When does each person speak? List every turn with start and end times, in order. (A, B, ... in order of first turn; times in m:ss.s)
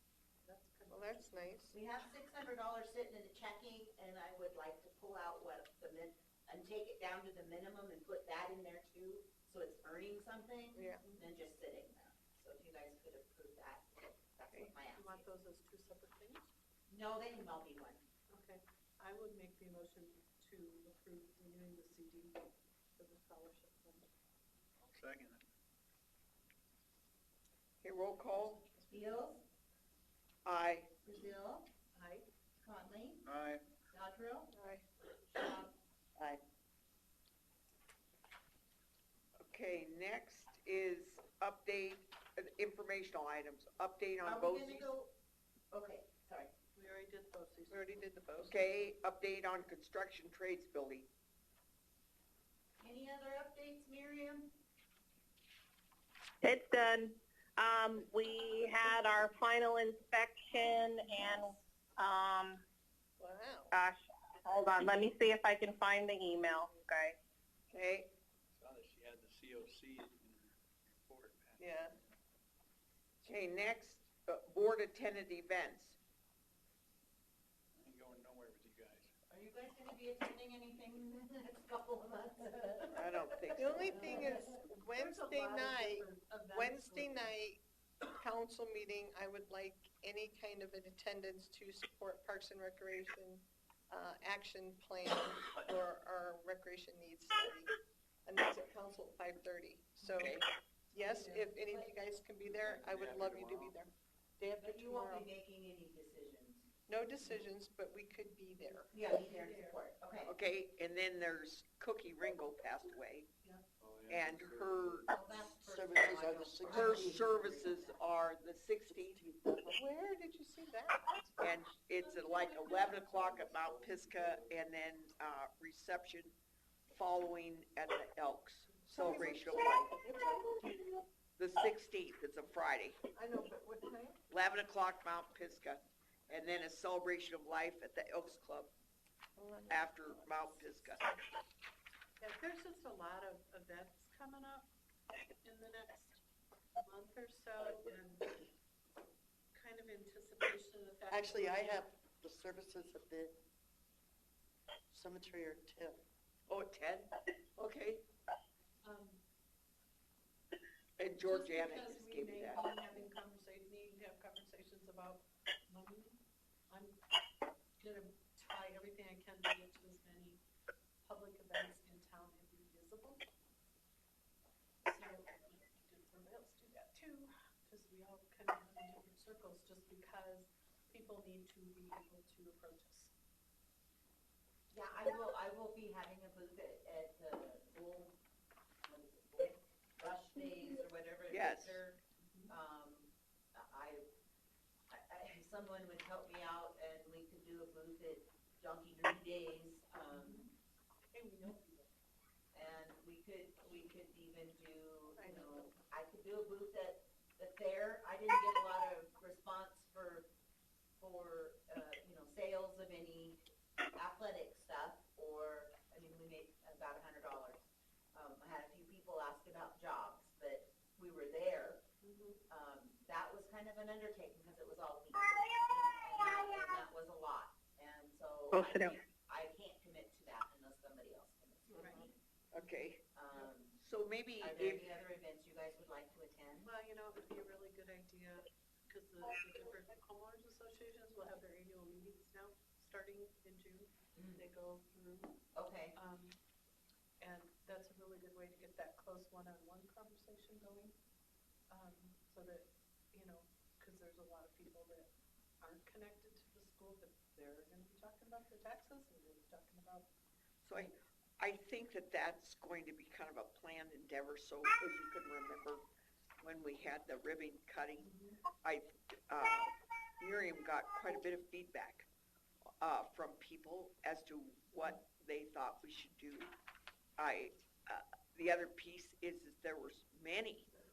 0:00.4-0:01.4 A
0:00.9-0:01.8 B
0:01.7-0:15.2 C
0:10.7-0:11.0 B
0:14.5-0:16.5 A
0:16.9-0:18.0 C
0:18.3-0:22.4 A
0:23.0-0:24.1 A
0:24.8-0:25.4 D
0:27.8-0:28.6 E
0:28.5-0:28.9 A
0:28.9-0:29.4 C
0:30.4-0:30.9 E
0:31.0-0:31.7 C
0:31.9-0:32.3 A
0:32.6-0:33.2 C
0:33.2-0:33.6 D
0:33.9-0:34.5 C
0:34.5-0:34.8 B
0:35.3-0:36.4 C
0:39.4-0:44.9 E
0:44.2-0:45.1 C
0:45.7-0:46.5 C
0:46.7-0:48.5 A
0:47.7-0:48.6 B
0:48.4-0:51.1 E
0:52.8-0:54.5 C
0:56.4-1:02.6 F
1:03.2-1:03.7 B
1:03.7-1:07.2 F
1:07.7-1:08.1 E
1:08.5-1:12.2 D
1:11.6-1:11.9 B
1:13.2-1:16.0 E
1:17.8-1:19.1 D
1:19.3-1:24.6 C
1:22.9-1:24.1 E
1:23.5-1:27.6 B
1:24.9-1:27.3 A
1:28.1-1:37.7 B
1:38.2-1:45.3 B
1:40.2-1:40.4 E
1:41.0-1:41.5 A
1:42.5-1:43.8 D
1:44.6-1:46.7 C
1:46.9-1:48.9 B
1:48.9-1:50.3 C
1:49.2-1:49.8 A
1:50.2-1:53.3 E
1:53.8-1:55.1 D
1:54.1-1:55.1 E
1:55.1-1:58.0 C
1:55.6-1:57.3 G
1:56.7-1:59.2 E
1:58.9-1:59.7 G
1:59.6-2:01.2 B
2:01.4-2:06.3 E
2:01.9-2:03.0 A
2:03.0-2:04.6 D
2:06.9-2:09.9 E
2:08.9-2:11.0 B
2:11.4-2:13.0 E
2:13.1-2:14.1 B
2:14.3-2:18.7 E
2:19.4-2:20.8 B
2:19.7-2:21.2 E
2:22.2-2:24.7 A
2:25.4-2:26.2 A
2:26.8-2:28.4 A
2:29.5-2:31.9 A
2:31.1-2:33.4 G
2:34.9-2:36.0 G
2:36.5-2:38.0 E
2:38.8-2:39.2 A
2:41.0-2:42.7 E
2:41.2-2:46.2 A
2:46.7-2:47.0 A
2:47.8-2:50.4 A
2:51.0-2:53.2 A
2:54.8-3:03.1 A
3:04.7-3:08.2 C
3:08.8-3:14.1 C
3:11.3-3:11.8 E
3:14.9-3:20.4 C
3:20.0-3:20.5 A
3:21.1-3:21.9 A
3:22.5-3:30.3 C
3:25.2-3:25.7 A
3:31.0-3:33.4 C
3:33.9-3:41.8 C
3:42.0-3:42.4 A
3:42.5-3:52.1 C
3:48.5-3:48.9 F
3:51.8-3:52.0 A
3:52.5-3:53.0 E
3:53.1-3:53.8 C
3:53.8-3:54.9 E
3:54.4-3:56.7 C
3:56.6-4:05.3 A
4:04.2-4:04.4 C
4:05.5-4:05.9 C
4:05.9-4:06.4 A
4:07.2-4:10.9 A
4:11.7-4:20.1 A
4:20.6-4:25.8 E
4:26.4-4:32.1 E
4:28.0-4:28.4 A
4:32.8-4:36.5 E
4:37.2-4:40.7 E